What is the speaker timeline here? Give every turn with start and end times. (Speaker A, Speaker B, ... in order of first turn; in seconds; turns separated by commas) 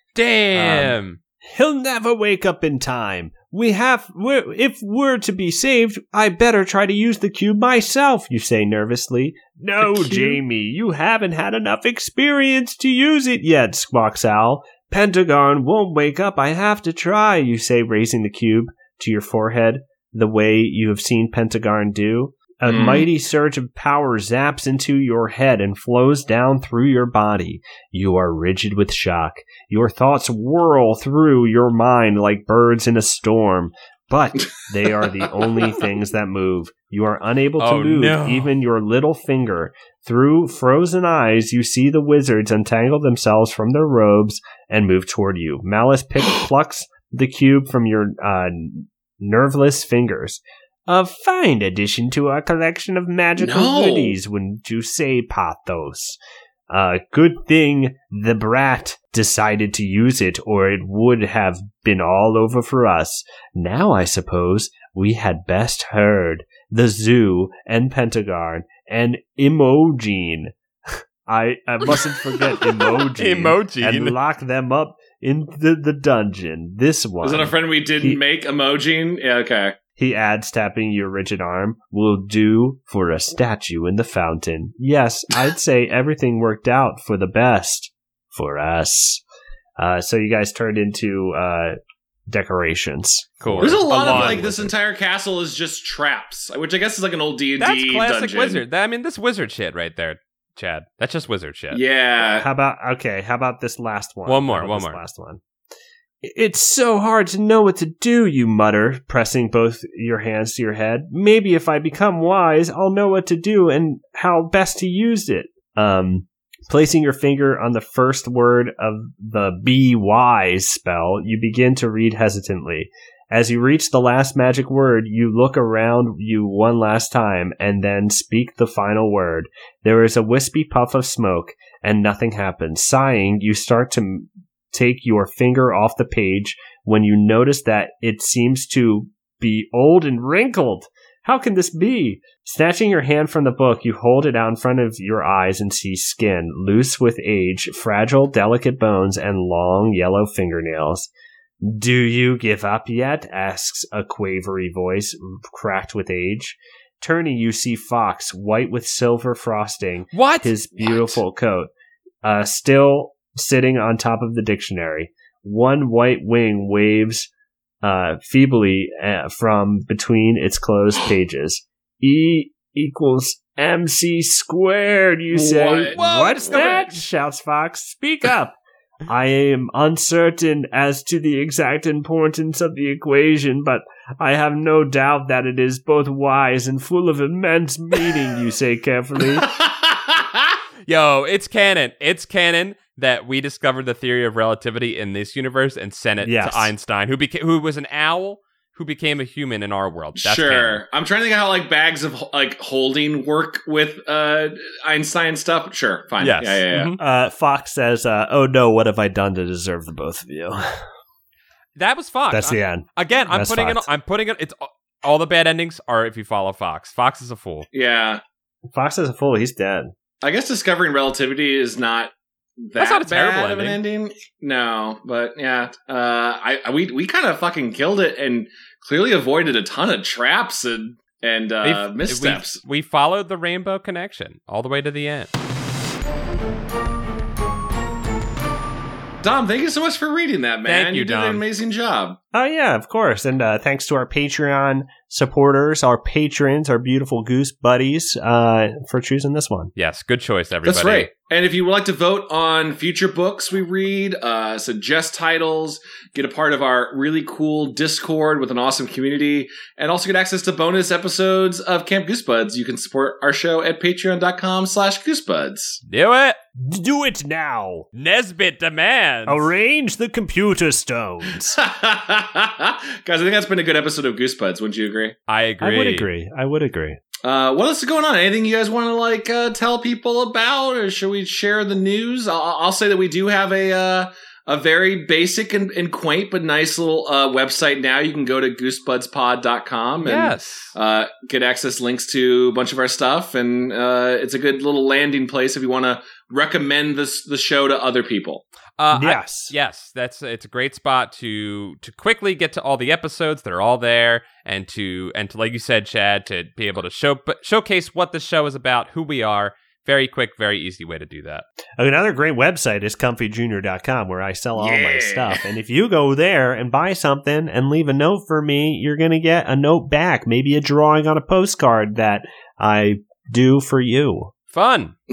Speaker A: 0.1-1.2, Speaker B: 0.5-56.2, Speaker C: 10.0-10.3, Speaker C: 22.6-23.1, Speaker C: 35.2-35.5, Speaker A: 37.6-38.5, Speaker C: 53.4-54.2, Speaker B: 56.7-78.2, Speaker A: 73.1-74.2, Speaker C: 77.2-79.8, Speaker B: 80.0-89.2, Speaker B: 89.8-91.8, Speaker B: 92.3-94.7, Speaker A: 93.4-94.7, Speaker C: 93.6-98.6, Speaker A: 97.6-101.8, Speaker C: 101.7-102.5, Speaker B: 102.2-105.4, Speaker A: 104.2-105.0, Speaker B: 106.2-151.1, Speaker B: 151.6-161.7, Speaker A: 160.1-161.1, Speaker B: 162.2-167.3, Speaker B: 167.8-189.5, Speaker C: 175.3-176.0, Speaker A: 175.9-177.0, Speaker C: 189.4-190.5, Speaker A: 190.9-200.8, Speaker B: 196.2-196.7, Speaker C: 200.2-206.9, Speaker A: 206.2-207.0, Speaker B: 207.0-210.8, Speaker A: 211.8-217.7, Speaker B: 212.3-213.9, Speaker C: 217.7-218.2, Speaker B: 218.7-219.9, Speaker C: 220.2-222.1, Speaker C: 222.6-232.6, Speaker A: 222.8-223.8, Speaker A: 231.6-235.3, Speaker C: 239.2-242.2, Speaker A: 240.7-241.4, Speaker B: 242.3-249.7, Speaker A: 249.8-251.1, Speaker C: 250.6-265.8, Speaker A: 265.9-266.4, Speaker B: 266.6-267.9, Speaker A: 267.9-269.5, Speaker B: 269.3-271.6, Speaker C: 271.4-275.1, Speaker A: 275.3-276.1, Speaker B: 275.6-277.0, Speaker C: 277.2-298.4, Speaker A: 290.0-290.7, Speaker A: 298.8-311.4, Speaker B: 298.9-299.5, Speaker B: 311.8-324.3, Speaker C: 314.6-315.4, Speaker A: 324.5-324.9